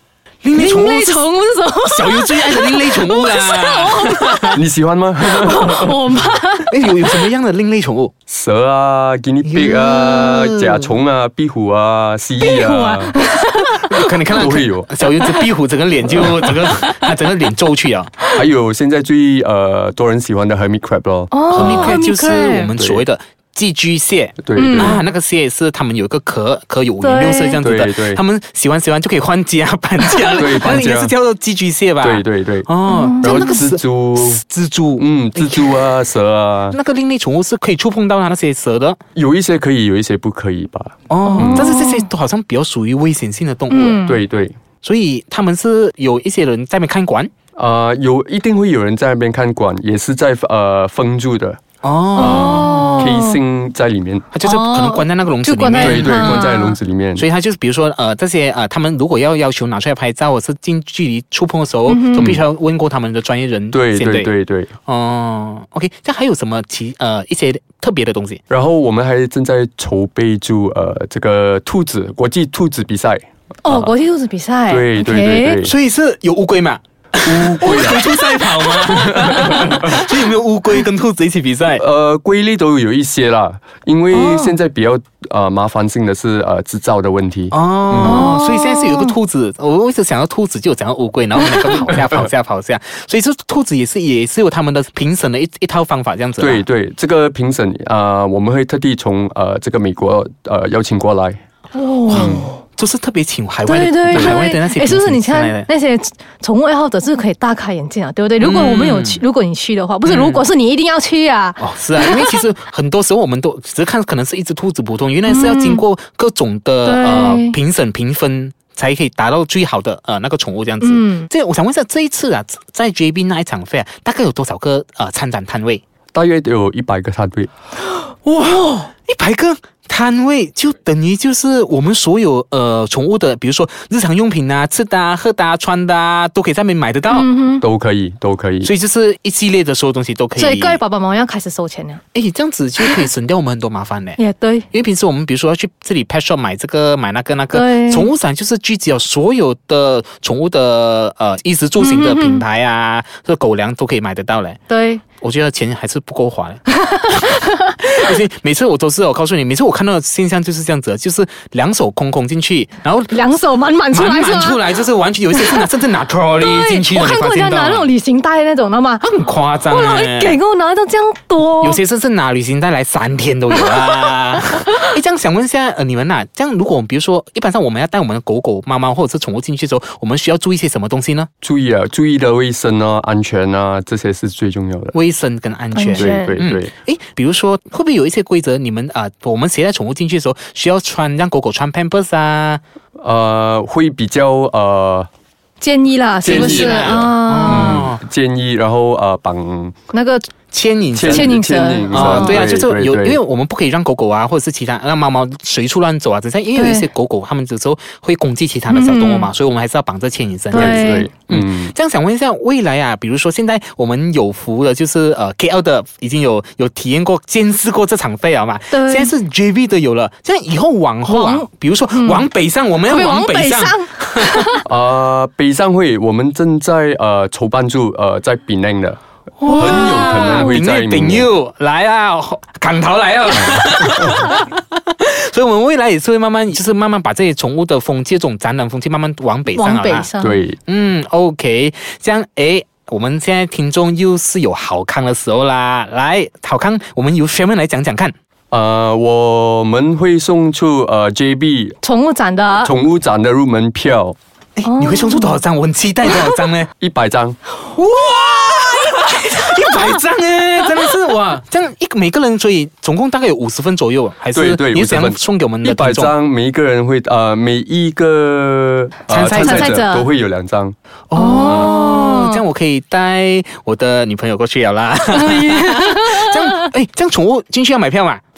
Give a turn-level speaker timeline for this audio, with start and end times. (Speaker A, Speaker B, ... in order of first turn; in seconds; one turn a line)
Speaker A: 0.4-1.3
Speaker B: 0.5-4.6
Speaker A: 1.9-4.6
Speaker C: 4.5-6.0
Speaker B: 5.3-6.8
Speaker A: 6.7-8.1
Speaker C: 8.3-13.2
Speaker A: 9.4-10.9
Speaker B: 12.4-14.5
Speaker A: 13.7-18.1
Speaker C: 14.3-14.9
Speaker B: 15.2-15.5
Speaker B: 16.2-16.9
Speaker C: 18.3-22.0
Speaker B: 21.3-22.7
Speaker A: 21.5-35.8
Speaker C: 22.8-23.1
Speaker C: 24.4-25.0
Speaker B: 24.6-25.0
Speaker B: 27.0-27.6
Speaker C: 27.6-28.2
Speaker C: 30.4-31.1
Speaker C: 32.0-32.7
Speaker B: 32.9-33.6
Speaker C: 33.2-34.4
Speaker C: 35.0-36.8
Speaker A: 36.7-39.0
Speaker C: 39.2-41.8
Speaker A: 41.1-44.1
Speaker B: 41.4-42.1
Speaker B: 43.7-44.2
Speaker C: 44.0-44.6
Speaker A: 44.8-47.3
Speaker C: 47.6-51.6
Speaker A: 51.8-53.0
Speaker B: 52.1-53.4
Speaker C: 52.2-54.3
Speaker A: 54.3-56.4
Speaker B: 54.4-56.8
Speaker C: 55.8-57.2
Speaker A: 57.2-64.3
Speaker B: 61.9-62.3
Speaker C: 62.2-62.4
Speaker C: 63.7-64.7
Speaker A: 64.9-68.4
Speaker C: 68.5-73.9
Speaker B: 73.7-75.6
Speaker C: 74.7-75.7
Speaker A: 75.6-81.8
Speaker C: 77.2-80.0
Speaker C: 81.8-88.4
Speaker B: 84.1-84.5
Speaker A: 87.5-96.7
Speaker B: 88.0-89.1
Speaker C: 96.4-101.4
Speaker B: 101.8-102.6
Speaker A: 102.1-105.7
Speaker C: 102.1-102.5
Speaker B: 103.7-112.4
Speaker C: 104.1-104.4
Speaker A: 108.4-109.2
Speaker A: 110.1-110.5
Speaker A: 111.6-125.8
Speaker B: 115.3-115.8
Speaker B: 116.8-117.6
Speaker B: 120.8-121.3
Speaker C: 126.1-127.5
Speaker A: 128.2-137.3
Speaker B: 137.1-137.6
Speaker C: 137.6-138.7
Speaker A: 138.6-140.8
Speaker B: 140.4-142.0
Speaker A: 142.1-144.2
Speaker B: 144.2-144.7
Speaker A: 144.7-154.6
Speaker B: 147.5-148.1
Speaker B: 151.8-152.4
Speaker B: 154.7-155.0
Speaker A: 155.2-163.2
Speaker B: 156.8-157.4
Speaker B: 163.1-164.7
Speaker A: 163.9-167.9
Speaker B: 165.3-165.7
Speaker B: 166.4-171.8
Speaker A: 169.0-170.4
Speaker A: 171.6-181.3
Speaker C: 181.4-184.9
Speaker A: 184.9-192.6
Speaker B: 185.8-186.4
Speaker C: 185.9-186.7
Speaker C: 193.0-195.1
Speaker B: 195.6-197.8
Speaker C: 196.2-199.8
Speaker A: 196.2-198.0
Speaker B: 199.9-200.3
Speaker A: 200.5-201.4
Speaker C: 200.9-203.2
Speaker B: 201.1-202.5
Speaker A: 201.9-224.5
Speaker B: 206.6-206.9
Speaker B: 208.7-209.3
Speaker B: 210.5-211.1
Speaker C: 210.5-211.7
Speaker B: 218.7-219.1
Speaker B: 221.1-222.3
Speaker B: 222.9-224.7
Speaker C: 224.7-231.3
Speaker A: 229.4-240.1
Speaker B: 229.4-230.6
Speaker B: 239.5-240.4
Speaker C: 240.2-240.6
Speaker A: 240.7-248.2
Speaker C: 248.5-251.8
Speaker B: 251.8-252.7
Speaker C: 252.6-254.2
Speaker A: 254.6-256.7
Speaker B: 254.7-255.4
Speaker C: 256.8-257.4
Speaker A: 257.7-266.1
Speaker C: 264.3-270.8
Speaker A: 269.1-269.9
Speaker B: 269.3-270.1
Speaker A: 271.1-278.2
Speaker B: 271.2-272.4
Speaker B: 275.1-276.7